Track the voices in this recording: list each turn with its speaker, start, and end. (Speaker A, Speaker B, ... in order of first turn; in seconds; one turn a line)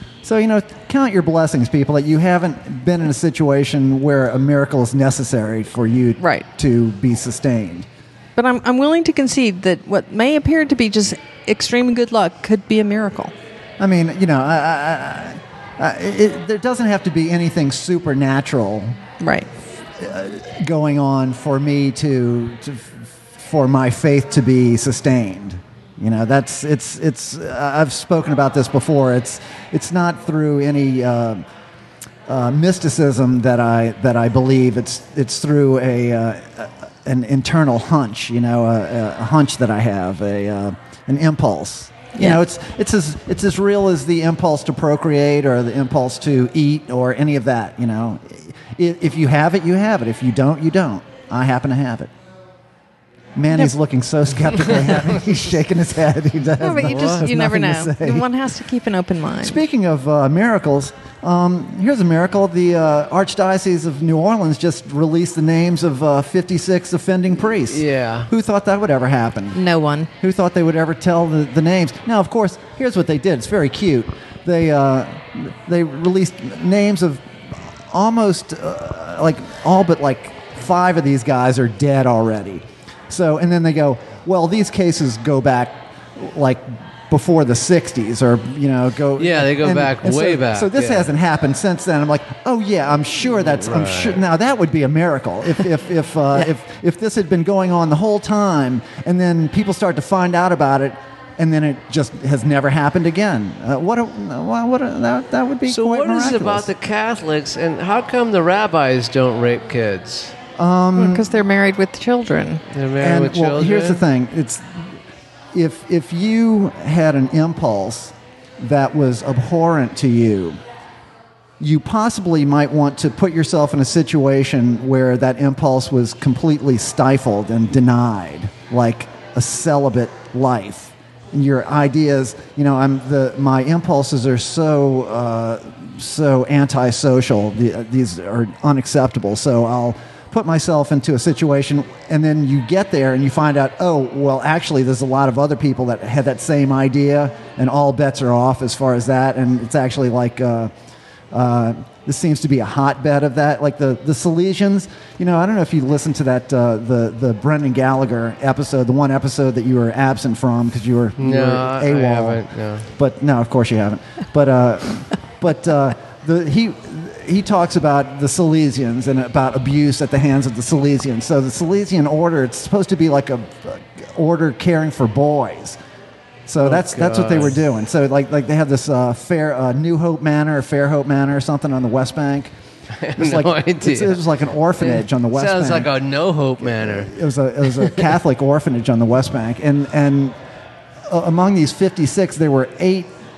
Speaker A: 0.2-7.9
Speaker B: 6.2-6.4
Speaker B: 8.3-13.3
Speaker A: 13.8-19.0
Speaker B: 19.2-19.5
Speaker A: 20.0-31.4
Speaker A: 32.3-52.1
Speaker B: 42.1-42.4
Speaker A: 53.4-58.3
Speaker B: 56.6-59.6
Speaker C: 56.8-57.2
Speaker A: 59.4-69.6
Speaker C: 67.7-68.3
Speaker B: 69.5-70.1
Speaker A: 70.2-106.7
Speaker C: 89.2-91.1
Speaker C: 93.4-94.2
Speaker C: 105.7-110.3
Speaker A: 110.6-111.3
Speaker B: 111.0-112.6
Speaker C: 112.7-114.0
Speaker A: 113.0-115.0
Speaker A: 115.5-120.6
Speaker A: 121.6-150.7
Speaker A: 151.3-175.8
Speaker C: 161.2-162.9
Speaker A: 176.5-182.5
Speaker C: 176.6-177.6
Speaker C: 183.0-184.3
Speaker A: 183.2-185.9
Speaker C: 184.8-187.1
Speaker A: 186.6-190.3
Speaker C: 187.7-188.1
Speaker A: 191.1-193.1